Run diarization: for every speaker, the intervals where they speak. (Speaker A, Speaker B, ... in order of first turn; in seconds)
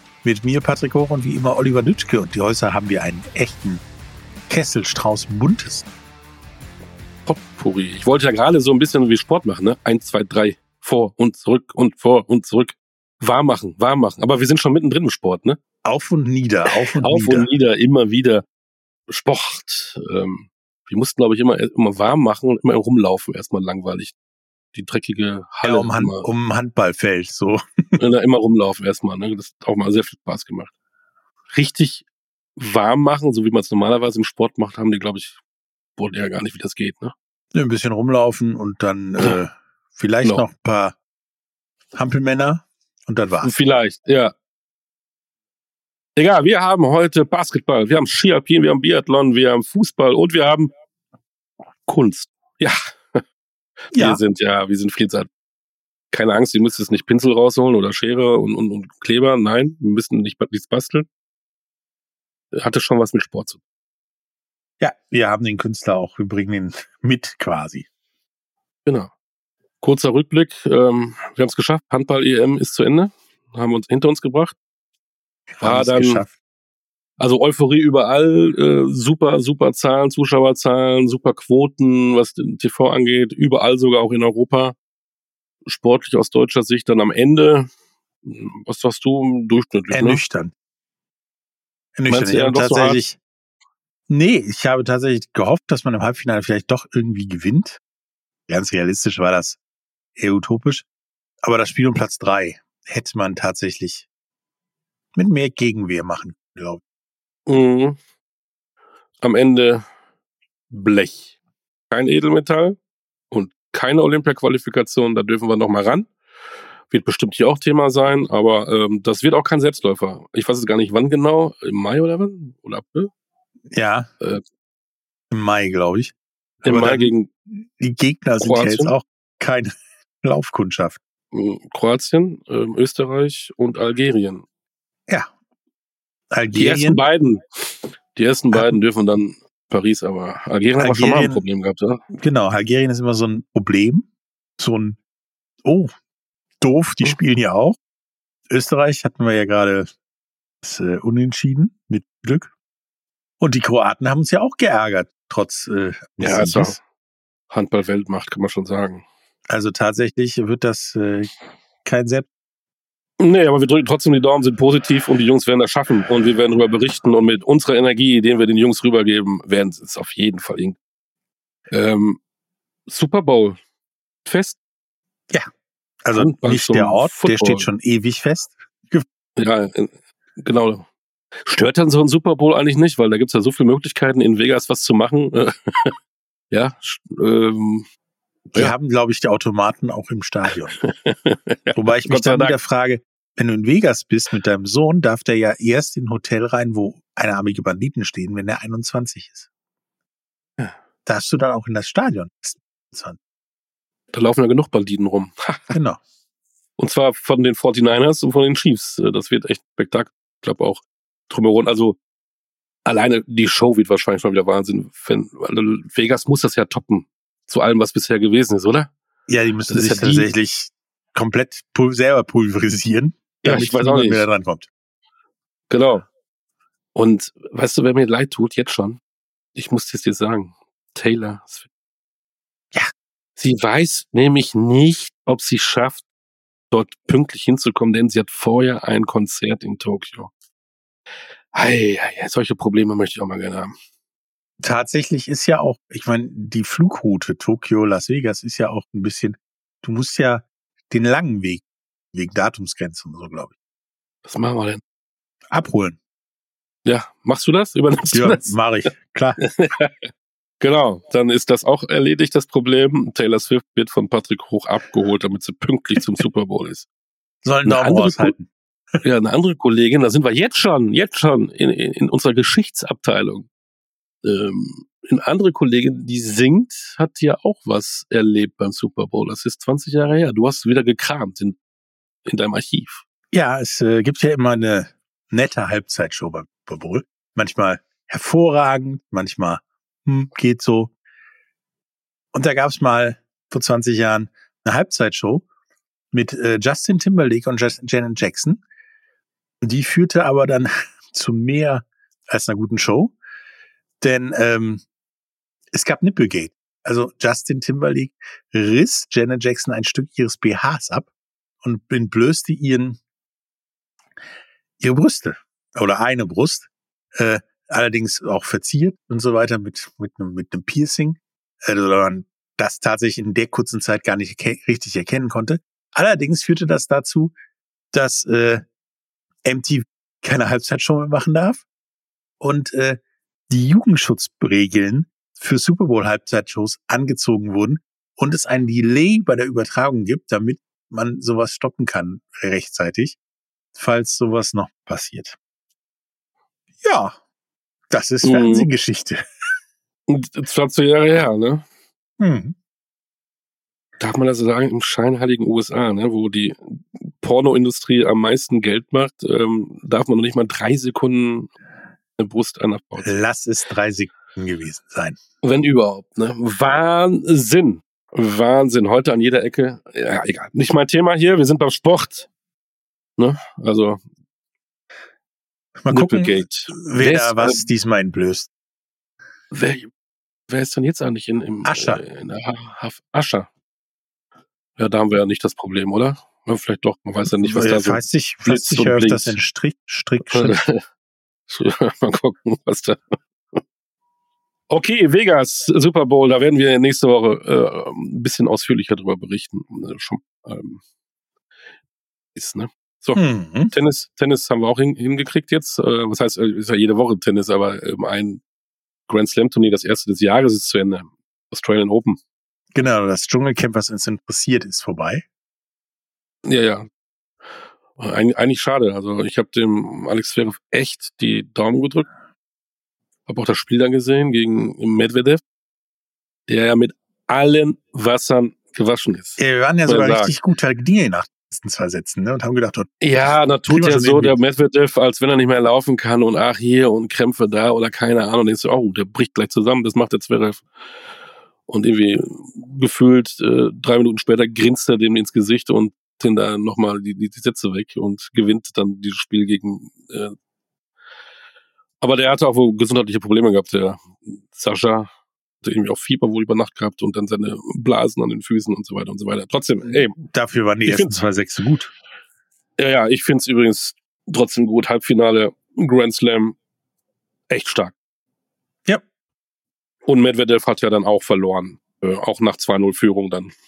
Speaker A: 0.2-3.8, 4.5-5.9, 15.8-17.5, 25.6-28.0, 37.5-41.0, 41.9-43.5, 53.9-54.2, 64.8-67.9, 75.5-76.3, 89.9-90.5, 92.0-93.2, 94.1-97.8, 98.5-99.6, 100.2-100.9, 101.4-104.1, 105.2-106.8, 123.7-124.1, 125.3-131.0, 136.3-137.0, 138.5-138.8, 140.8-141.4, 142.1-144.1, 144.6-145.0, 145.6-145.9, 146.6-147.8, 148.5-149.9, 150.6-152.5, 153.4-156.8, 159.5-161.3, 161.8-162.3, 176.0-179.1, 188.5-190.8, 191.8-199.5, 201.1-203.2, 205.7-206.0, 219.3-224.7, 244.6-253.5, 255.5-256.0, 258.1-259.5, 267.4-268.5, 283.3-290.9, 292.3-295.4, 296.1-298.6, 299.6-303.1, 304.0-304.8, 305.7-311.1, 311.6-313.0, 314.8-327.3, 327.9-328.6, 329.4-331.6, 332.4-343.2, 343.8-345.4, 346.8-347.2, 347.9-349.2, 352.2-352.6, 363.0-365.2, 375.8-378.5, 381.6-382.0, 387.4-390.6, 403.1-403.7, 412.7-415.2, 429.4-433.0, 433.7-434.4, 459.9-461.9
Speaker B: 7.3-15.6, 17.0-18.4, 19.1-24.1, 24.7-26.3, 28.0-30.7, 31.5-32.0, 32.6-35.4, 36.0-37.1, 43.4-44.3, 46.2-50.7, 51.9-53.2, 54.0-55.3, 56.1-61.1, 62.5-63.6, 68.9-69.1, 69.8-74.6, 75.6-76.2, 77.2-84.8, 85.7-87.7, 88.2-90.2, 92.1-93.0, 107.5-108.0, 109.2-109.8, 110.7-111.3, 111.9-112.8, 113.3-116.1, 116.9-123.1, 126.7-127.3, 128.4-128.9, 131.3-134.4, 136.5-142.0, 156.2-156.8, 157.5-159.0, 163.2-170.8, 171.7-172.2, 172.9-173.6, 174.2-174.6, 176.2-177.7, 179.4-180.9, 181.5-185.9, 186.5-187.9, 190.8-192.6, 204.1-205.8, 206.8-212.0, 212.8-218.9, 219.7-220.3, 223.4-224.3, 225.7-226.1, 226.9-229.0, 229.6-231.7, 233.4-236.0, 236.7-240.3, 241.5-243.7, 254.3-254.8, 256.9-258.6, 259.5-260.1, 260.6-266.9, 267.6-268.3, 269.0-273.5, 274.2-281.6, 282.3-283.0, 348.2-348.7, 350.1-351.6, 354.0-361.5, 362.2-363.1, 365.4-372.3, 373.2-374.0, 375.9-377.6, 379.5-379.9, 380.5-383.5, 384.8-389.4, 390.2-390.8, 391.5-393.6, 394.7-400.8, 402.4-408.4, 409.1-412.2, 416.5-416.9, 418.0-422.1, 423.3-425.4, 426.5-430.3, 433.0-440.6, 441.7-450.4, 452.0-455.1, 455.6-460.2, 460.9-461.2, 462.8-466.6, 467.5-467.9, 470.1-473.5